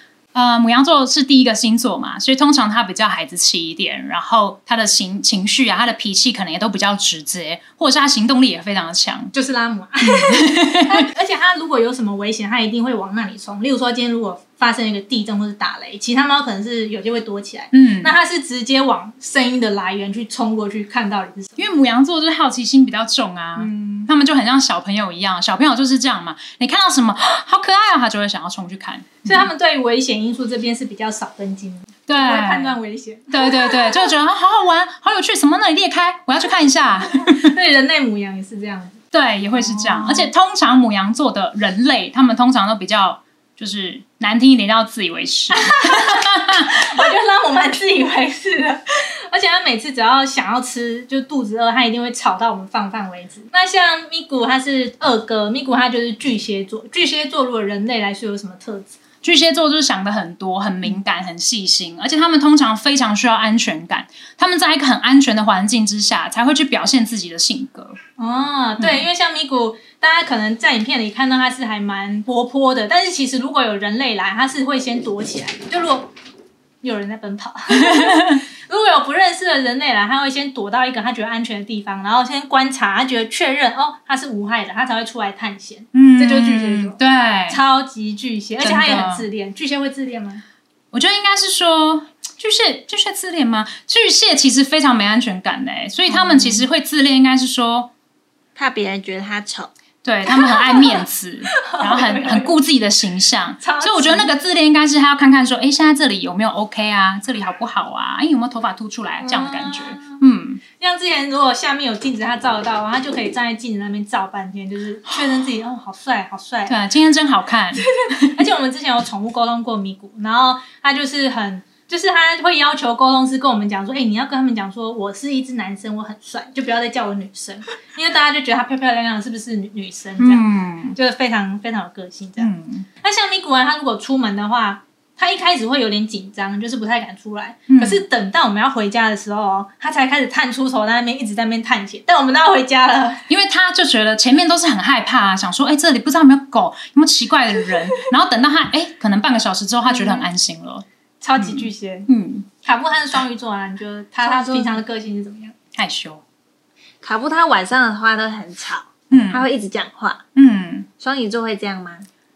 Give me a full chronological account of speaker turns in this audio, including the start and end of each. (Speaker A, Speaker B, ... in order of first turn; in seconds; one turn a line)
Speaker A: 0.3-9.3
Speaker B: 9.3-21.7
Speaker A: 10.0-11.1
Speaker A: 17.7-18.1
Speaker A: 21.6-29.5
Speaker B: 23.6-24.1
Speaker B: 29.2-34.1
Speaker A: 32.1-32.8
Speaker A: 33.3-37.5
Speaker B: 37.2-39.0
Speaker A: 39.1-47.0
Speaker B: 39.5-40.3
Speaker B: 45.5-58.9
Speaker A: 59.2-68.0
Speaker B: 68.2-76.1
Speaker A: 68.8-69.1
Speaker B: 76.8-87.0
Speaker A: 77.8-78.4
Speaker A: 85.9-87.6
Speaker B: 87.5-90.4
Speaker A: 88.6-89.3
Speaker A: 90.9-97.9
Speaker B: 96.1-96.7
Speaker C: 98.6-99.7
Speaker A: 100.0-110.6
Speaker B: 100.3-102.5
Speaker B: 103.6-104.3
Speaker B: 109.2-110.2
Speaker B: 110.8-116.8
Speaker A: 115.1-115.5
Speaker A: 116.7-118.3
Speaker B: 118.0-130.4
Speaker A: 130.2-131.0
Speaker B: 130.9-132.5
Speaker A: 132.4-132.9
Speaker B: 133.0-143.2
Speaker A: 137.7-138.1
Speaker A: 143.3-150.8
Speaker B: 149.8-150.3
Speaker B: 151.2-152.1
Speaker A: 151.4-152.5
Speaker B: 152.6-155.6
Speaker C: 154.2-154.8
Speaker A: 155.8-156.2
Speaker C: 157.0-160.2
Speaker A: 159.1-159.5
Speaker A: 160.4-160.9
Speaker C: 161.0-162.1